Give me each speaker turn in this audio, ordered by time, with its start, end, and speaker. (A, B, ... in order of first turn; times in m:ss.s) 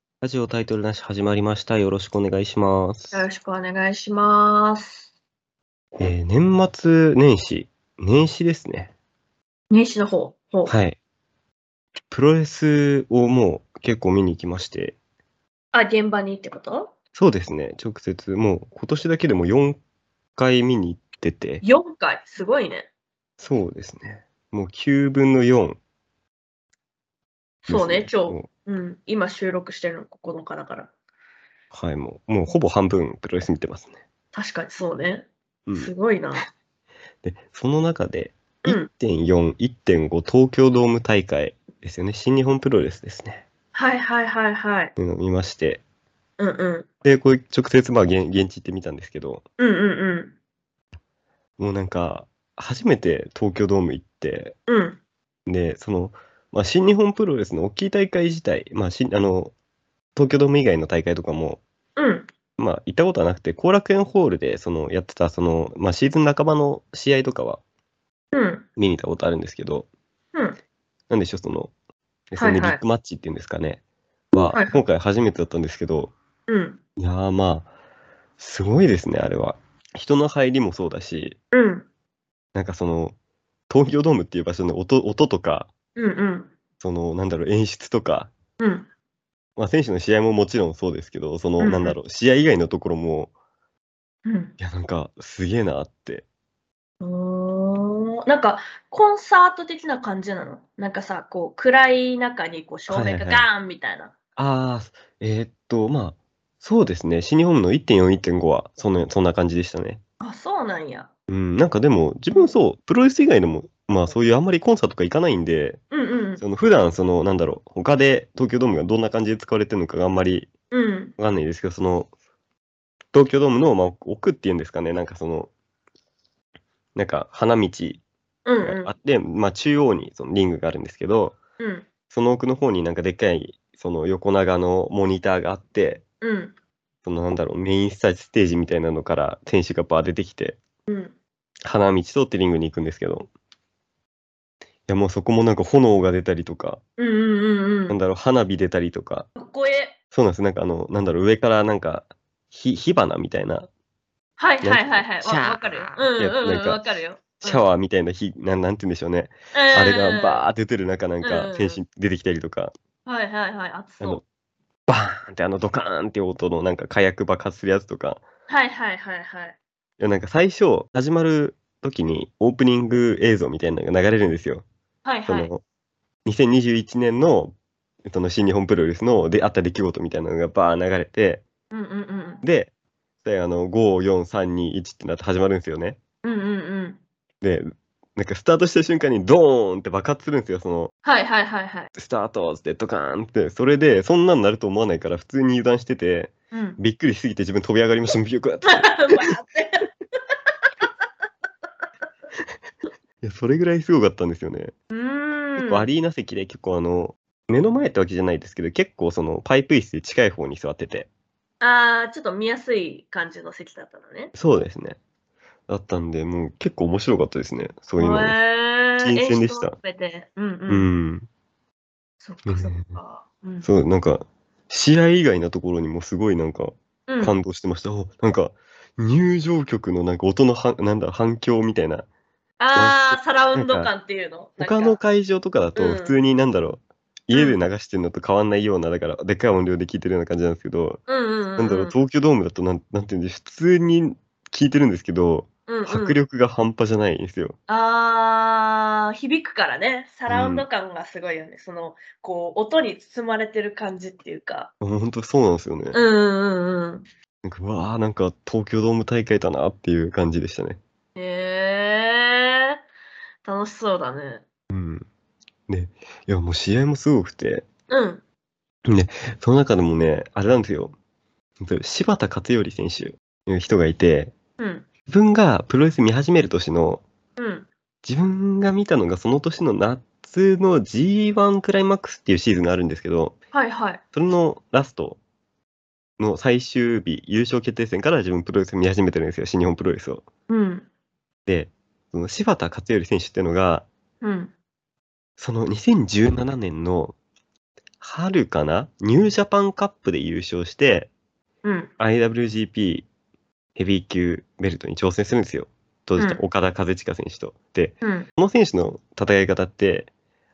0:00.2-0:03.3 A
0:03.1-0:05.1 B
0:06.0-0:08.9 A
0:09.7-0:10.7 B
0:10.6-0:11.0 A
0:12.1-0:15.0 A
0:15.7-0:16.9 B
0:17.1-0:19.8 A
0:20.4-0:21.6 A
0:21.6-0:22.9 B
0:23.4-0:25.8 A
0:27.6-0:30.9 B
0:27.7-0:28.5 A
0:31.7-0:34.0 A
0:34.3-0:36.4 B
0:35.6-0:35.9 A
0:37.2-0:43.4 A
0:43.7-0:44.9 B
0:45.0-0:45.8 A
0:46.4-0:46.9 B
0:47.0-0:49.4 A
0:49.6-0:50.3 B
0:51.6-0:54.5 A
0:54.7-0:55.0 B
0:55.4-0:59.5 A
1:00.2-1:01.6 A
1:02.0-1:02.3 B
1:02.6-1:07.6 A
1:08.3-1:08.6 B
1:08.8-1:09.9 A
1:11.1-1:11.7 A
1:12.3-1:16.1 A
1:12.4-1:12.8 B
1:14.4-1:14.8 B
1:16.5-1:16.8 B
1:17.0-1:17.7 A
1:18.4-1:21.4 A
1:21.5-1:21.9 B
1:22.5-1:23.1 A
1:23.7-1:25.7 A
1:26.0-1:26.5 B
1:26.8-1:28.3 A
1:28.6-1:28.9 B
1:29.6-1:33.3 A
1:31.6-1:31.9 B
1:34.2-1:34.5 B
1:34.6-1:36.2 A
1:37.0-1:44.1 B
1:42.9-1:43.5 A
1:44.4-1:50.0 A
1:50.2-1:51.1 B
1:51.3-1:55.8 A
1:55.9-1:56.4 B
1:56.4-2:00.5 A
2:00.7-2:01.1 B
2:01.2-2:02.1 A
2:03.1-2:05.5 A
2:07.0-2:08.0 A
2:08.4-2:08.9 B
2:08.6-2:11.4 A
2:11.6-2:11.9 B
2:12.1-2:16.0 A
2:16.2-2:16.6 B
2:17.0-2:20.6 A
2:20.9-2:21.1 B
2:21.6-2:23.3 A
2:24.9-2:26.8 A
2:27.0-2:28.0 B
2:27.9-2:29.3 A
2:29.4-2:30.0 B
2:30.1-2:33.7 A
2:34.4-2:37.6 B
2:34.6-2:36.8 A
2:37.4-2:42.7 A
2:39.5-2:40.4 B
2:41.2-2:41.8 B
2:43.0-2:44.2 B
2:44.9-2:48.2 A
2:48.5-2:49.6 B
2:50.0-2:54.6 A
2:55.0-2:55.5 B
2:55.3-2:55.6 A
2:56.2-3:01.4 A
3:01.7-3:02.4 B
3:02.4-3:02.7 A
3:03.2-3:06.0 A
3:06.2-3:07.0 B
3:07.4-3:10.9 A
3:11.0-3:11.9 B
3:11.9-3:19.3 A
3:16.5-3:16.8 B
3:18.6-3:19.8 B
3:23.2-3:24.7 A
3:24.9-3:25.9 B
3:25.6-3:31.1 A
3:31.6-3:34.3 B
3:34.3-3:35.0 A
3:35.7-3:38.4 A
3:38.0-3:40.9 B
3:39.0-3:39.8 A
3:40.7-3:41.3 A
3:42.2-3:43.7 B
3:42.4-3:43.0 A
3:43.6-3:52.0 A
3:47.1-3:47.4 B
3:52.6-3:55.0 B
3:52.7-3:53.9 A
3:54.6-4:01.0 A
3:55.8-3:56.2 B
3:57.3-3:57.6 B
4:01.1-4:01.9 B
4:01.6-4:07.6 A
4:05.7-4:06.2 B
4:07.7-4:14.7 B
4:10.3-4:10.6 A
4:14.8-4:16.0 A
4:15.9-4:17.0 B
4:17.4-4:20.8 A
4:21.2-4:22.8 B
4:23.4-4:24.4 B
4:24.7-4:25.0 A
4:25.7-4:27.7 A
4:27.9-4:28.2 B
4:28.8-4:30.9 A
4:31.6-4:34.3 A
4:34.6-4:34.9 B
4:35.1-4:37.0 A
4:37.4-4:37.7 B
4:38.0-4:43.3 A
4:43.5-4:44.0 B
4:44.1-4:45.2 A
4:46.2-4:50.2 A
4:50.5-4:50.9 B
4:51.5-4:53.9 A
4:54.2-4:54.5 B
4:55.4-4:57.2 A
4:58.0-5:01.1 A
5:01.6-5:01.9 B
5:02.0-5:03.1 A
5:03.8-5:10.1 A
5:06.2-5:06.4 B
5:08.0-5:08.3 B